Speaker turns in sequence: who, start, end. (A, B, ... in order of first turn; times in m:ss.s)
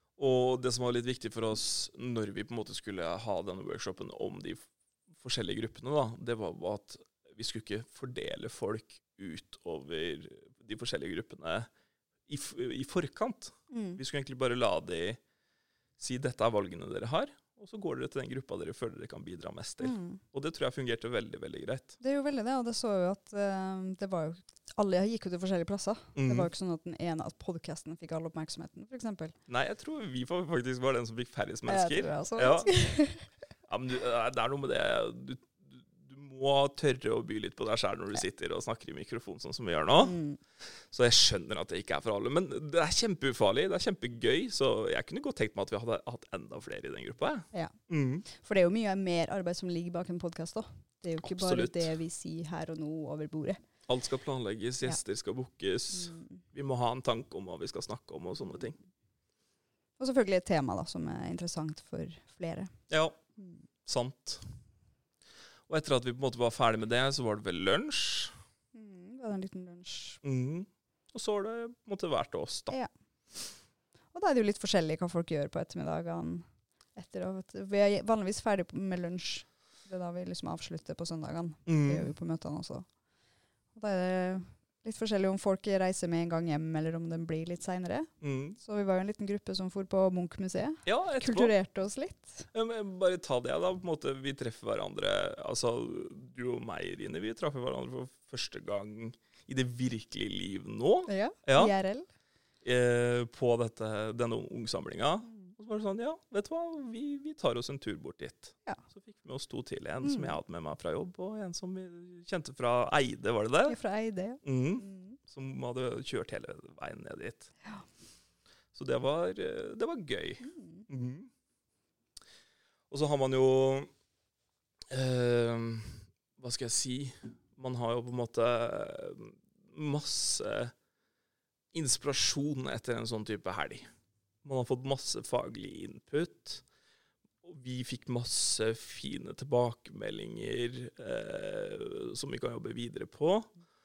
0:00.2-0:11.7 A
0:12.3-0:15.2 A
0:13.7-0:14.0 B
0:16.0-0:22.0 A
0:19.8-0:20.2 B
0:22.0-0:29.4 B
0:26.2-0:26.5 A
0:29.5-0:32.7 A
0:31.7-0:33.3 B
0:33.7-0:48.3 A
0:40.0-0:40.4 B
0:47.5-0:53.6 B
0:51.2-0:52.0 A
0:53.9-0:58.8 A
0:55.9-0:56.4 B
1:00.0-1:02.7 B
1:02.9-1:03.2 A
1:03.8-1:04.4 A
1:05.7-1:08.4 A
1:08.7-1:10.2 B
1:10.2-1:12.7 A
1:14.1-1:22.9 B
1:21.7-1:22.1 A
1:23.8-1:28.1 B
1:28.2-1:28.6 A
1:28.6-1:32.5 B
1:30.9-1:31.5 A
1:32.5-1:41.7 A
1:41.1-1:42.1 B
1:42.6-1:53.8 A
1:45.3-1:45.5 B
1:50.0-1:50.4 B
1:53.7-1:55.2 B
1:54.4-1:57.5 A
1:58.7-2:01.3 A
2:00.4-2:00.9 B
2:02.9-2:03.9 A
2:04.9-2:10.7 A
2:11.7-2:13.9 A
2:14.4-2:16.6 A
2:17.4-2:23.5 A